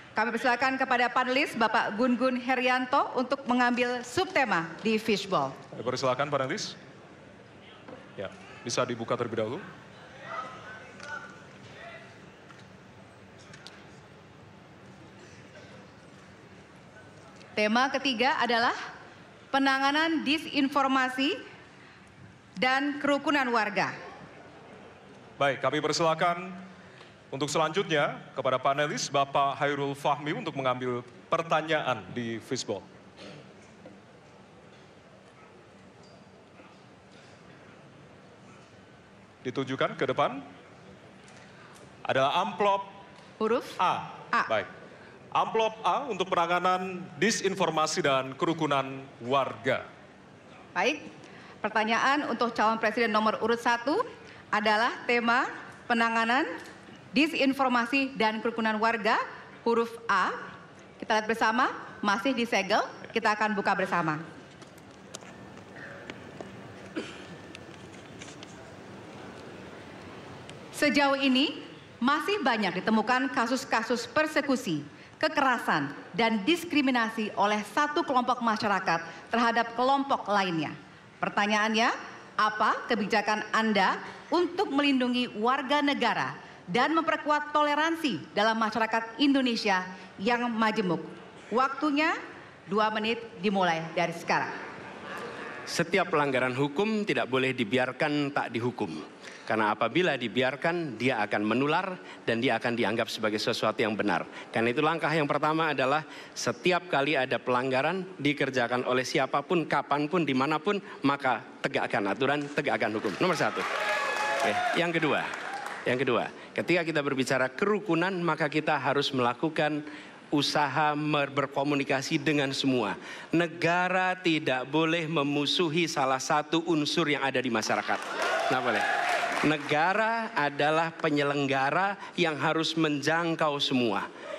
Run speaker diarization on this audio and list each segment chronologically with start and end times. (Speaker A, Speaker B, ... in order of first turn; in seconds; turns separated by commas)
Speaker A: 0.1-5.5, Speaker B: 5.7-6.8, Speaker B: 8.2-9.6, Speaker A: 17.6-18.8, Speaker A: 19.5-21.4, Speaker A: 22.6-23.9, Speaker B: 25.4-26.6, Speaker B: 27.3-32.8, Speaker B: 39.4-40.4, Speaker B: 42.0-42.9, Speaker A: 43.4-43.8, Speaker B: 43.8-44.7, Speaker B: 45.3-49.8, Speaker A: 50.7-51.0, Speaker A: 51.6-54.0, Speaker A: 54.5-56.5, Speaker A: 57.1-60.4, Speaker A: 61.0-64.2, Speaker A: 70.7-92.1, Speaker A: 92.7-94.5, Speaker C: 95.7-113.7, Speaker C: 114.4-115.3, Speaker C: 115.9-119.8, Speaker C: 120.3-128.8, Speaker C: 129.4-134.1